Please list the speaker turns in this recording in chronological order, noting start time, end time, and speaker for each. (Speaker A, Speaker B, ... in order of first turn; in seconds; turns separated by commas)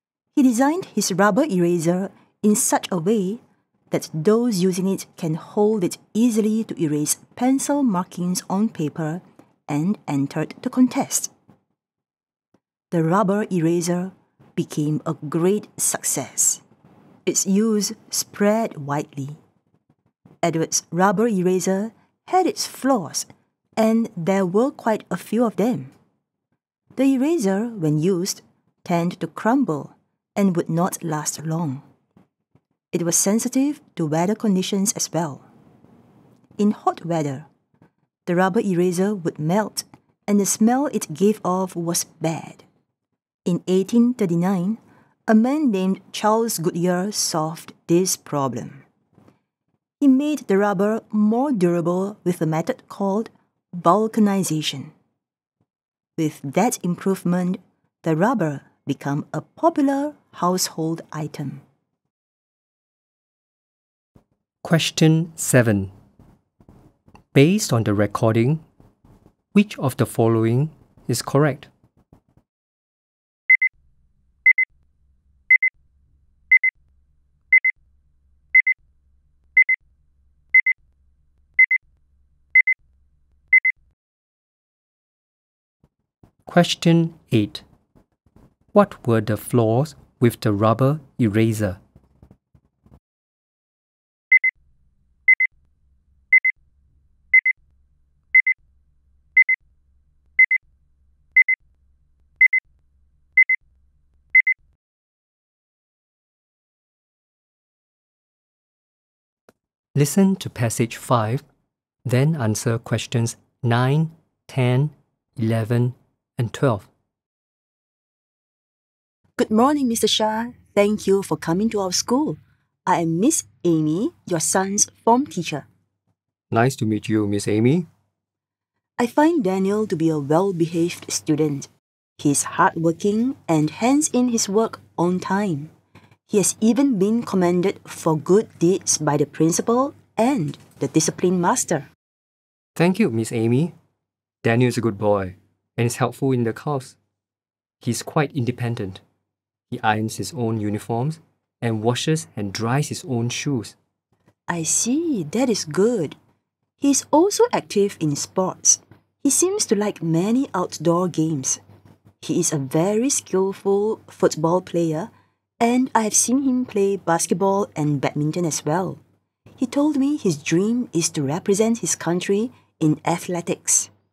Speaker A: 0.3-11.3, Speaker A: 12.9-16.6, Speaker A: 17.3-19.4, Speaker A: 20.4-25.9, Speaker A: 27.0-31.8, Speaker A: 32.9-35.4, Speaker A: 36.6-37.5, Speaker A: 38.3-42.6, Speaker A: 43.5-48.8, Speaker A: 50.0-54.9, Speaker A: 56.2-61.6, Speaker B: 64.6-65.9, Speaker B: 67.3-68.6, Speaker B: 69.5-71.7, Speaker B: 86.5-87.7, Speaker B: 88.7-91.8, Speaker B: 110.0-111.4, Speaker B: 112.0-116.9, Speaker A: 119.4-125.7, Speaker B: 126.5-127.9, Speaker A: 129.0-135.7, Speaker A: 136.3-141.9, Speaker B: 142.8-143.7, Speaker B: 144.4-147.0, Speaker B: 147.8-149.0, Speaker B: 149.7-153.8, Speaker A: 154.5-156.2, Speaker A: 156.8-161.6, Speaker A: 162.2-169.0, Speaker A: 169.6-173.9